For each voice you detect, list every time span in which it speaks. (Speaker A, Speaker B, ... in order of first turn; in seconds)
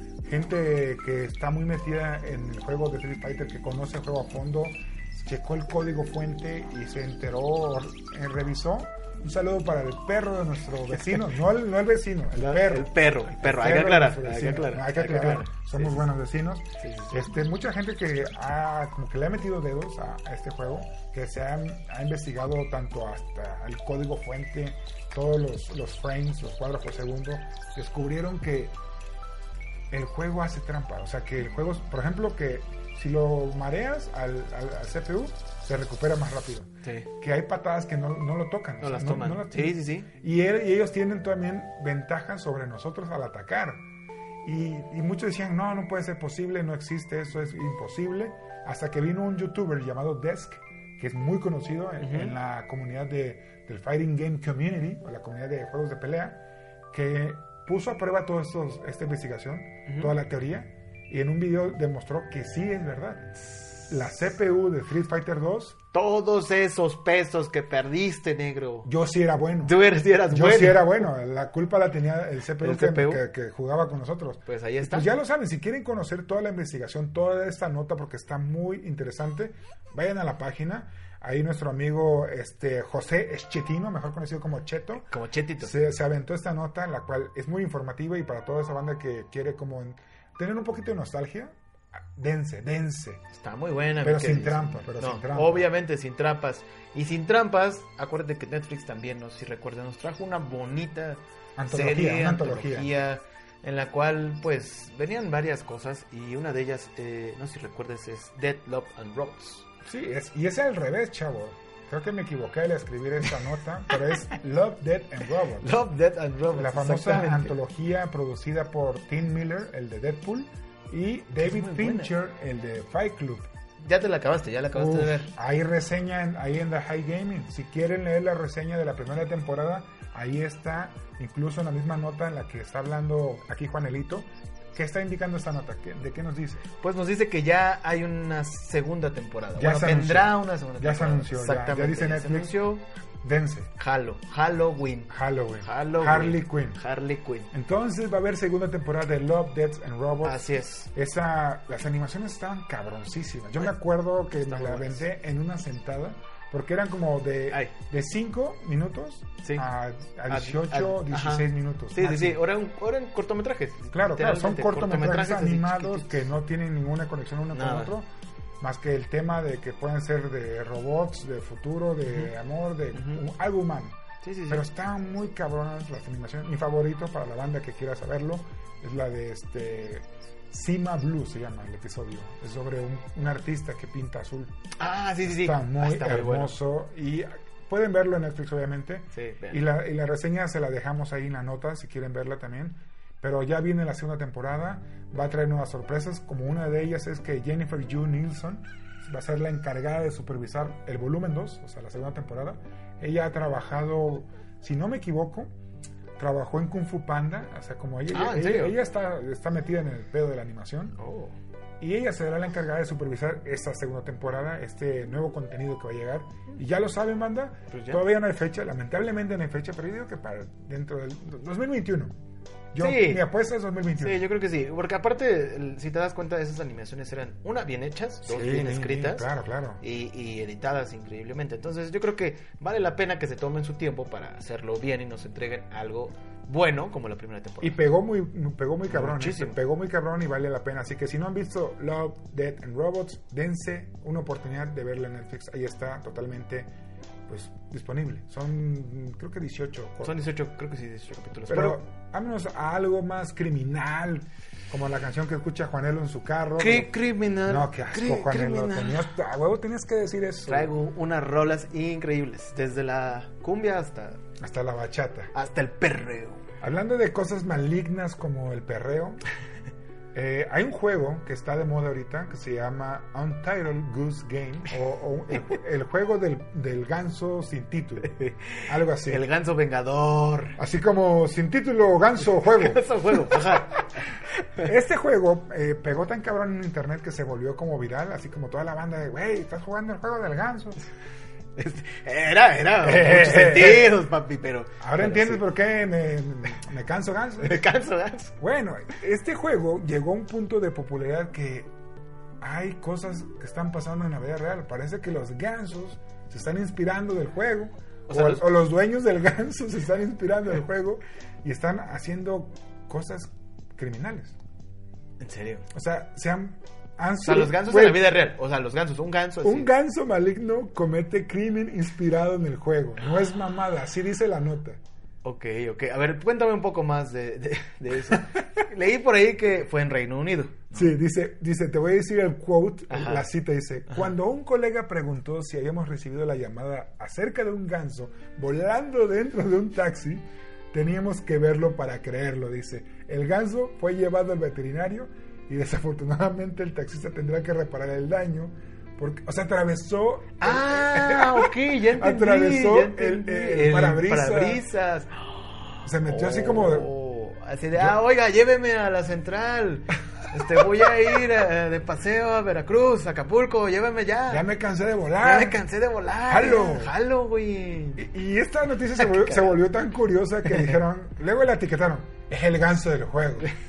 Speaker A: 0.2-28.8, 29.9-43.8, 44.4-63.3, 63.9-65.8, 68.8-93.2, 94.0-95.7, 101.6-102.9, 109.8-115.8, 116.5-123.5, 124.7-136.7, 139.6-142.6, 143.2-143.7, 145.1-146.8, 147.5-162.4, 163.9-168.1, 168.6-184.6, 185.2-205.5, 206.2-211.0, 211.8-222.2, 222.7-224.2, 228.2-229.8, 237.6-246.7, 247.3-250.2, 251.5-256.9, 257.4-260.7, 264.4-265.3, 266.6-269.2, 270.1-278.1, 278.7-279.2, 280.6-283.5, 284.6-290.8, 292.8-294.0, 294.8-297.6, 298.4-301.7, 302.4-314.4, 315.7-318.1, 319.4-324.8, 330.7-354.6, 355.8-356.9, 364.3-365.6, 366.2-366.9, 368.0-373.5
Speaker B: 12.3-16.1, 16.8-17.2, 38.8-40.1, 52.0-52.4, 59.9-60.1, 65.9-68.9, 69.6-71.1, 72.6-73.2, 74.5-75.1, 85.1-85.8, 93.3-109.7, 115.6-117.5, 121.4-122.1, 123.8-125.3, 136.8-142.8, 143.8-147.5, 150.2-150.9, 154.4-155.0, 160.3-166.2, 167.5-167.9, 172.1-172.3, 172.9-173.2, 174.2-174.6, 184.8-186.6, 189.1-189.6, 208.1-208.8, 211.0-211.3, 217.7-218.0, 222.8-223.2, 224.0-229.3, 229.8-237.8, 238.9-239.6, 250.0-251.8, 256.6-259.1, 260.5-264.2, 265.3-266.4, 278.0-280.6, 282.4-284.7, 291.6-295.4, 297.4-298.4, 308.1-308.5, 315.2-315.7, 317.2-319.7, 325.2-330.9, 332.9-333.3, 350.4-364.4, 365.2-368.0, 369.0-369.6, 370.5-370.8